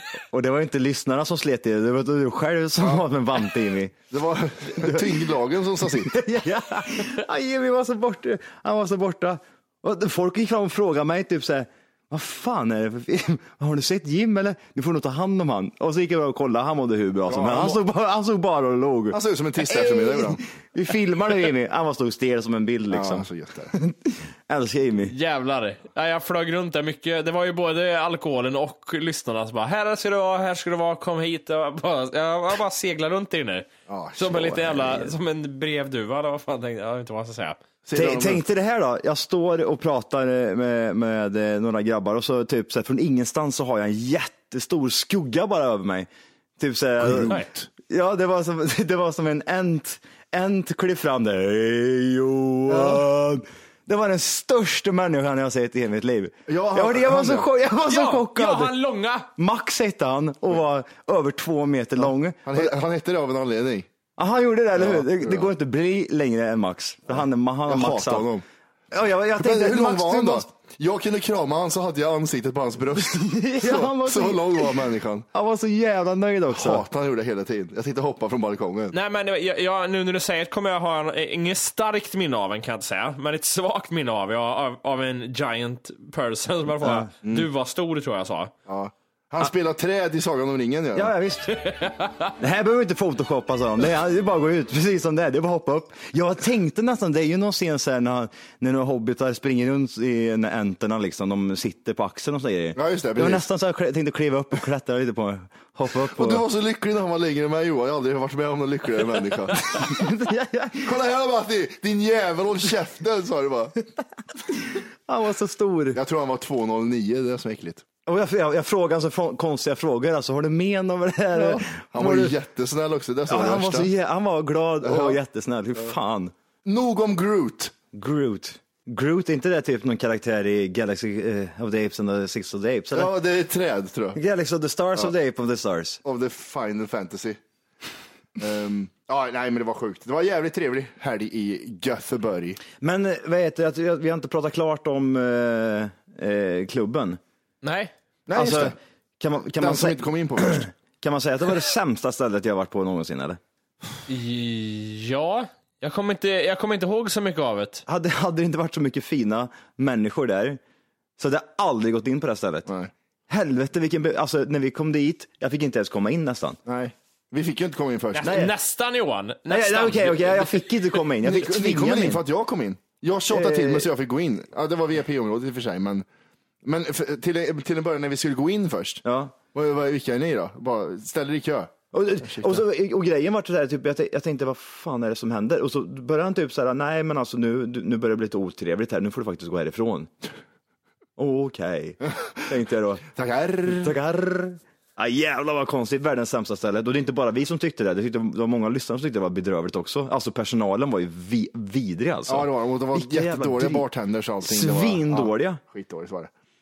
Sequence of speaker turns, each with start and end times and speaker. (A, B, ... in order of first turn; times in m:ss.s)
0:00.3-0:04.0 A
0:04.1-0:06.2 B
0:04.7-0:05.3 A
0:05.8-0:25.1 A
0:17.3-0:17.8 B
0:19.1-0:20.4 B
0:22.9-0:23.7 B
0:25.1-0:37.6 C
0:33.9-0:34.6 B
0:34.3-0:35.1 A
0:37.8-0:38.4 B
0:37.9-0:58.8 A
0:47.0-0:47.7 B
0:52.7-0:53.1 B
0:56.5-0:57.5 B
0:57.9-0:59.3 C
0:59.4-1:02.7 A
1:02.0-1:03.9 B
1:04.2-1:08.3 A
1:04.7-1:05.5 B
1:07.7-1:08.4 B
1:08.9-1:10.5 A
1:09.4-1:15.3 B
1:13.0-1:16.8 A
1:16.5-1:18.9 B
1:18.9-1:28.5 C
1:26.8-1:27.1 A
1:28.7-1:31.1 B
1:30.9-1:31.6 A
1:31.5-1:32.3 C
1:32.4-1:46.4 A
1:42.7-1:43.4 B
1:46.1-1:50.0 B
1:49.7-1:50.9 A
1:50.8-1:53.7 B
1:54.4-1:56.0 A
1:55.9-1:57.8 B
1:58.0-2:02.3 A
2:01.3-2:03.9 B
2:03.3-2:06.3 A
2:04.8-2:05.2 B
2:06.6-2:07.7 B
2:07.9-2:13.1 A
2:12.9-2:14.2 B
2:14.1-2:16.0 A
2:16.0-2:17.4 B
2:18.4-2:22.6 B
2:22.8-2:27.2 A
2:27.6-2:27.9 C
2:28.3-2:28.7 B
2:28.3-2:33.4 A
2:29.6-2:30.7 B
2:34.1-2:37.8 C
2:37.9-2:40.6 A
2:41.2-2:42.7 A
2:42.6-2:42.9 B
2:43.3-2:46.6 A
2:46.6-2:48.3 B
2:48.1-2:51.0 C
2:48.2-2:48.5 A
2:49.5-2:52.2 A
2:51.2-2:56.0 B
2:53.3-2:53.9 A
2:56.6-2:59.0 B
2:59.0-2:59.3 A
2:59.5-3:02.6 B
3:01.9-3:10.1 A
3:11.2-3:13.0 A
3:13.1-3:14.0 B
3:13.6-3:23.9 A
3:22.3-3:26.3 B
3:24.4-3:25.6 A